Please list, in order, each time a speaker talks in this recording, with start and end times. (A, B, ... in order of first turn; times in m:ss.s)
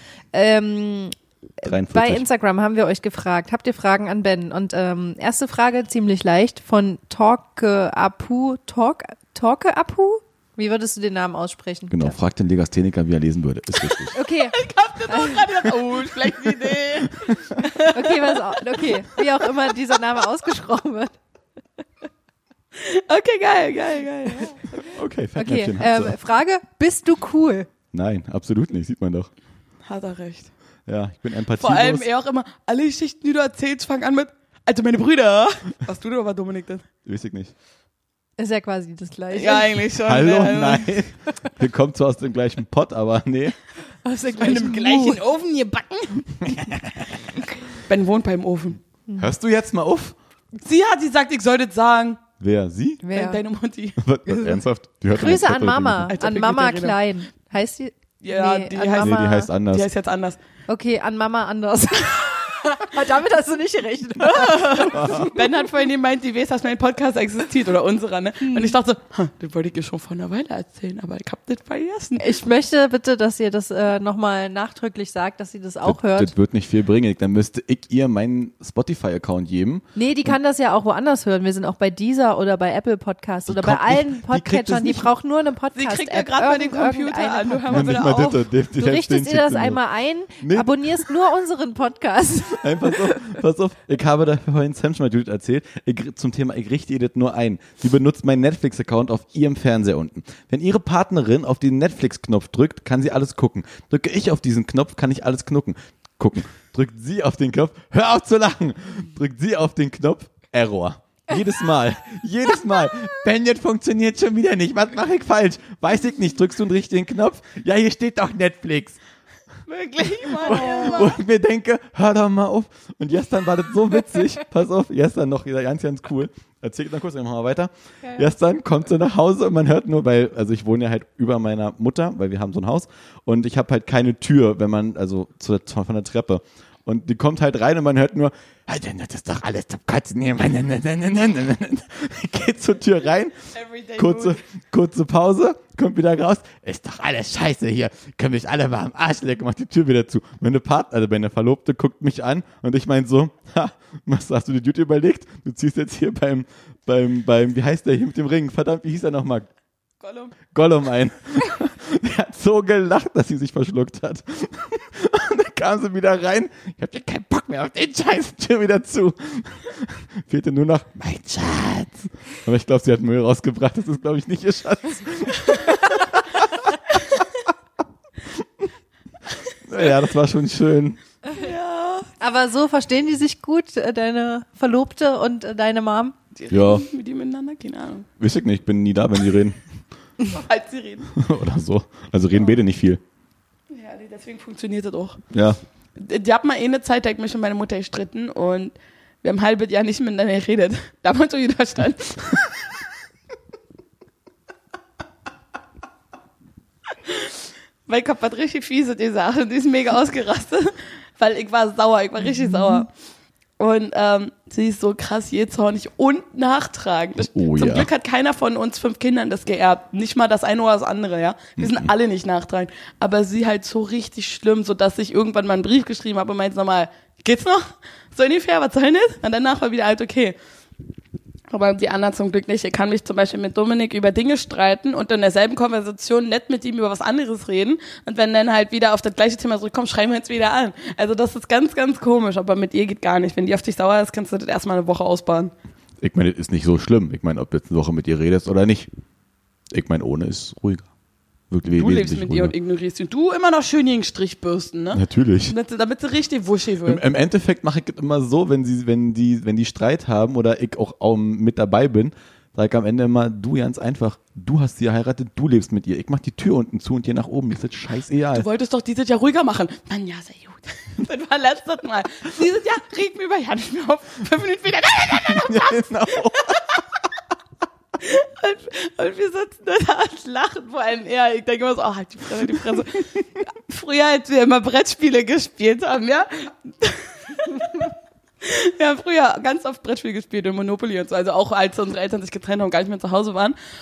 0:00.3-0:12.2 A
0:01.6-0:02.2 B
0:11.9-0:14.2 B
0:14.2-0:15.5 A
0:14.2-0:19.2 C
0:17.9-0:21.2 A
0:22.8-0:24.8 C
0:24.9-0:26.2 B
0:25.4-0:27.7 A
0:27.9-0:29.3 B
0:29.9-0:30.5 C
0:30.9-0:32.1 B
0:31.6-0:36.9 C
0:37.0-0:37.5 B
0:38.4-0:39.8 A
0:39.3-0:41.0 C
0:40.0-0:43.6 B
0:44.0-0:45.2 A
0:44.4-0:46.4 C
0:46.4-0:47.3 B
0:47.8-0:48.8 C
0:49.2-0:50.2 B
0:50.6-0:52.2 C
0:52.4-0:53.0 B
0:53.0-0:53.4 A
0:53.1-0:54.0 C
0:54.0-0:56.1 B
0:55.1-0:59.5 A
0:56.1-0:57.0 C
0:58.2-1:00.4 C
0:59.0-0:59.9 B
1:00.7-1:05.3 A
1:04.3-1:12.2 C
1:05.0-1:05.3 B
1:08.4-1:08.8 A
1:12.2-1:16.3 A
1:15.8-1:20.4 B
1:20.0-1:28.0 A
1:23.5-1:25.1 B
1:25.8-1:28.5 C
1:27.7-1:29.8 B
1:28.8-1:33.2 A
1:30.4-1:31.1 B
1:32.5-1:59.0 B
1:59.7-2:01.2 C
2:00.3-2:39.5 B
2:00.5-2:01.0 A
2:08.0-2:08.3 A
2:23.5-2:24.4 C
2:40.0-2:40.4 C
2:40.5-2:56.8 B
2:59.6-3:01.0 B
3:01.3-3:02.1 C
3:02.2-3:06.2 A
3:06.4-3:08.1 C
3:06.5-3:06.9 B
3:08.2-3:09.6 B
3:10.3-3:11.1 C
3:11.1-3:13.0 B
3:13.7-3:15.2 C
3:15.3-3:15.6 B
3:16.0-3:22.6 C
3:27.1-3:27.3 C
3:27.9-3:32.9 C
3:33.6-3:50.4 C
3:37.2-3:37.9 B
3:41.6-3:41.9 B
3:51.5-4:05.5 C
4:06.0-4:08.9 B
4:09.7-4:10.9 B
4:11.5-4:12.5 B
4:11.8-4:17.0 C
4:14.9-4:15.6 B
4:16.8-4:28.5 B
4:28.3-4:36.8 C
4:35.3-4:36.7 B
4:38.0-4:47.9 C
4:48.4-4:53.6 C